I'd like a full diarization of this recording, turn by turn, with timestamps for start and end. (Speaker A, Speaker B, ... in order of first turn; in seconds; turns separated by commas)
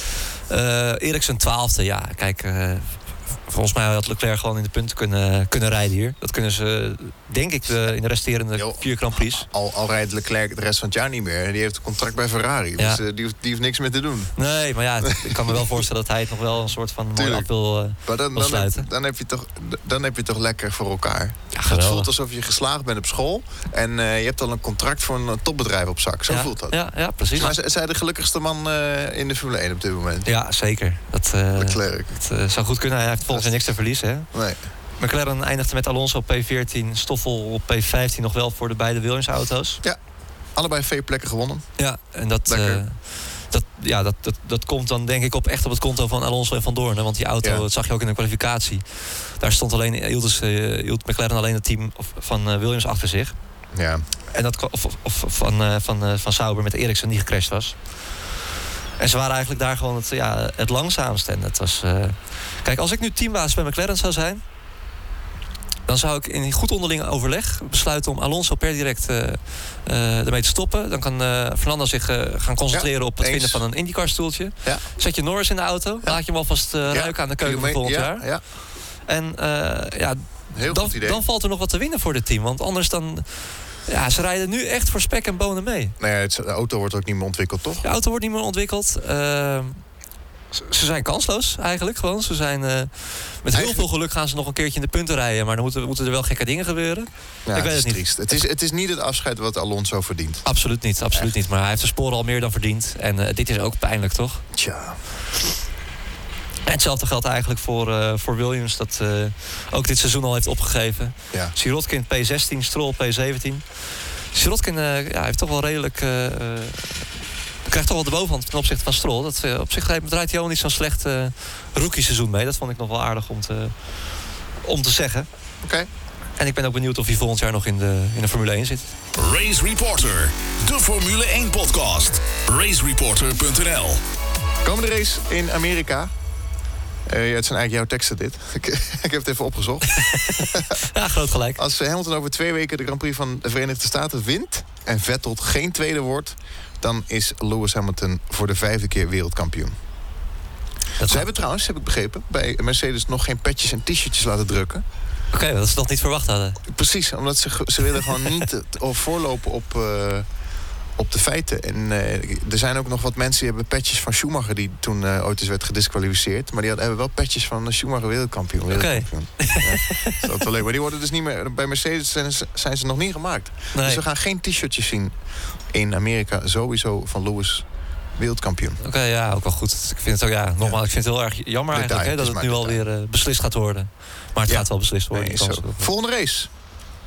Speaker A: 0.5-9.5, Speaker B: 8.6-14.3, Speaker A: 14.4-18.9, Speaker B: 15.0-15.8, Speaker B: 17.1-17.5, Speaker B: 18.0-26.8, Speaker A: 21.5-22.1, Speaker A: 26.3-27.6, Speaker B: 27.4-30.3, Speaker A: 30.2-34.3, Speaker B: 31.6-32.1, Speaker B: 33.3-33.6, Speaker B: 34.3-34.6, Speaker A: 35.0-39.8, Speaker B: 40.6-41.6, Speaker A: 41.8-48.9, Speaker B: 42.5-42.8, Speaker A: 49.4-53.4, Speaker B: 53.7-54.0, Speaker A: 54.3-57.8, Speaker A: 59.0-64.4, Speaker A: 65.9-78.3, Speaker B: 72.7-73.6, Speaker B: 76.9-78.4, Speaker A: 79.1-83.3, Speaker B: 80.5-81.2, Speaker A: 83.9-86.0, Speaker B: 86.0-87.8, Speaker A: 87.8-89.8, Speaker A: 90.5-98.1, Speaker B: 93.5-93.9, Speaker B: 97.5-100.5, Speaker A: 100.5-104.4, Speaker B: 104.5-105.0, Speaker A: 106.7-113.6, Speaker A: 114.3-117.1, Speaker A: 117.7-123.7, Speaker A: 124.6-125.3, Speaker B: 125.6-125.9, Speaker A: 126.4-128.9, Speaker C: 129.2-134.0, Speaker B: 134.6-136.1, Speaker B: 137.1-140.8, Speaker A: 139.9-141.6, Speaker B: 141.6-149.7, Speaker A: 151.0-151.3, Speaker B: 151.1-154.8, Speaker A: 155.3-156.6, Speaker B: 156.7-160.3, Speaker B: 161.0-175.2, Speaker A: 168.7-170.3, Speaker A: 173.7-174.0, Speaker B: 175.7-177.7, Speaker B: 178.2-178.8, Speaker A: 178.8-185.9, Speaker B: 181.7-182.8, Speaker B: 184.5-186.5